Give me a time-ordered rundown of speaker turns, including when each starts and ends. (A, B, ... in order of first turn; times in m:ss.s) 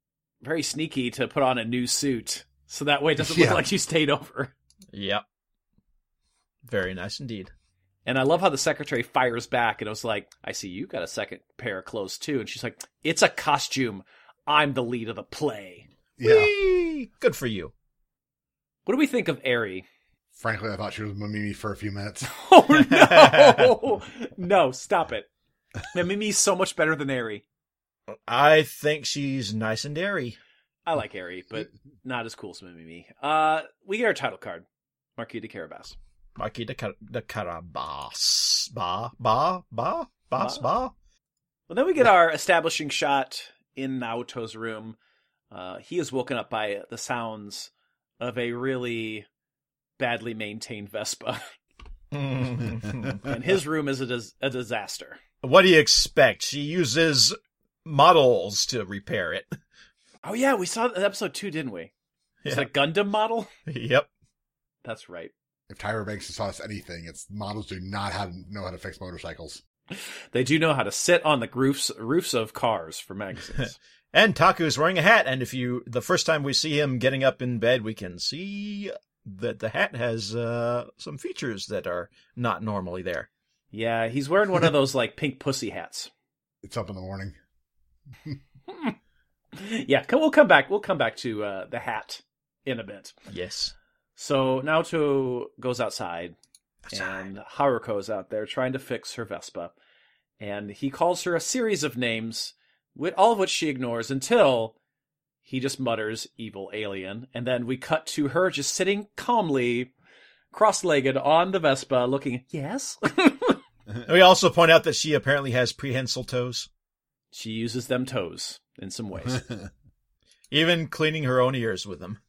0:00.4-0:04.5 A
0:03.2-0:03.6 B
0:04.9-0:05.2 C
0:06.6-0:07.5 C
0:08.0-0:15.8 A
0:16.2-0:16.5 B
0:16.2-0:17.7 C
0:18.8-0:19.8 A
0:20.4-0:22.3 B
0:22.3-0:25.3 A
0:22.7-0:23.7 C
0:25.9-0:27.4 A
0:28.3-0:30.4 C
0:30.8-0:34.6 A
0:35.2-0:36.0 A
0:36.4-0:40.9 C
0:40.4-0:40.6 A
0:41.7-0:45.0 A
0:45.5-0:49.2 A
0:50.0-0:51.4 A
0:52.1-0:53.2 C
0:53.2-0:55.2 A
0:55.4-0:59.5 C
1:00.2-1:01.9 A
1:02.4-1:02.7 C
1:02.5-1:03.5 A
1:03.7-1:04.1 C
1:04.8-1:05.3 A
1:05.7-1:09.6 B
1:10.0-1:13.8 A
1:14.1-1:23.3 C
1:23.7-1:26.1 A
1:26.6-1:27.4 B
1:29.5-1:33.1 A
1:33.3-1:33.7 C
1:34.2-1:36.3 A
1:36.8-1:37.3 C
1:36.9-1:39.7 A
1:40.4-1:44.7 A
1:45.4-1:49.9 A
1:50.5-1:53.6 A
1:54.0-1:56.7 C
1:57.3-1:59.4 A
2:00.5-2:02.2 C